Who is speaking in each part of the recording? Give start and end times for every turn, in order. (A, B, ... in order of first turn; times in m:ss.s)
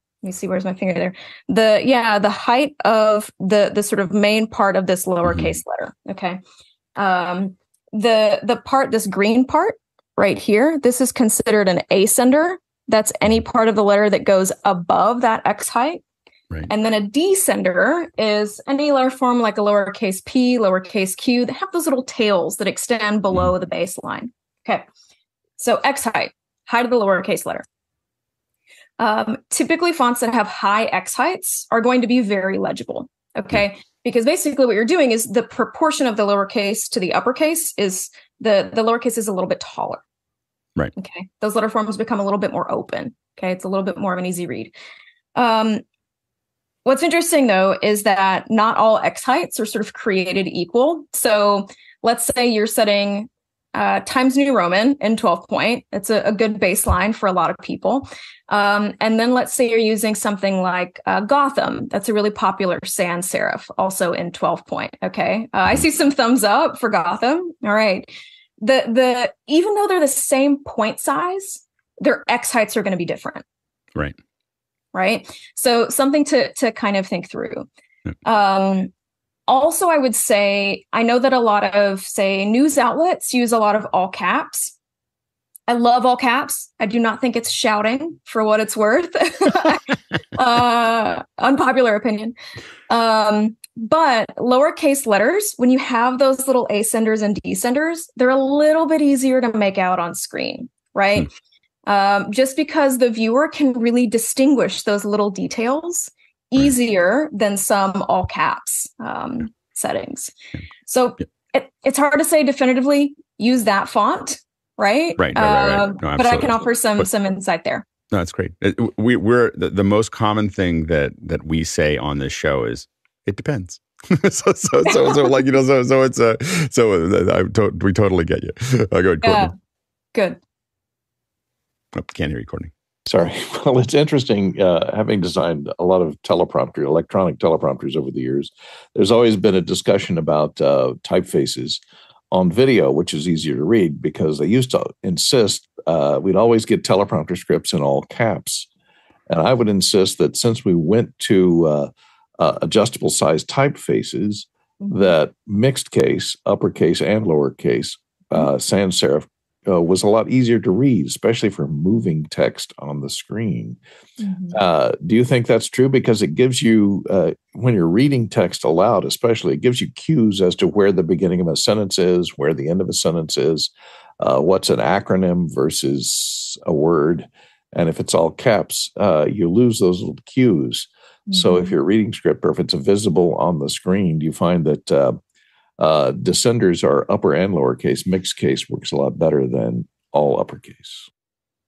0:00.2-0:06.4 A
0:05.2-0:05.5 B
0:07.0-0:16.0 A
0:16.7-0:24.8 A
0:25.6-0:27.6 A
0:29.0-0:40.0 A
0:40.9-0:44.7 A
0:45.3-0:45.8 A
0:46.8-1:13.4 A
1:14.9-1:17.7 A
1:18.2-1:18.9 A
1:19.5-1:24.7 A
1:25.7-1:32.3 A
1:32.9-1:41.3 A
1:41.8-1:50.3 A
1:50.9-1:57.8 A
1:55.2-1:57.1 B
1:58.1-2:09.5 B
2:04.8-2:05.4 A
2:09.2-2:09.5 A
2:10.1-2:10.4 A
2:11.9-2:12.7 B
2:13.1-2:28.7 C
2:29.3-2:43.8 C
2:34.8-2:35.2 A
2:44.2-2:44.6 A
2:44.5-3:05.2 C
3:01.3-3:01.7 A
3:05.8-3:11.0 C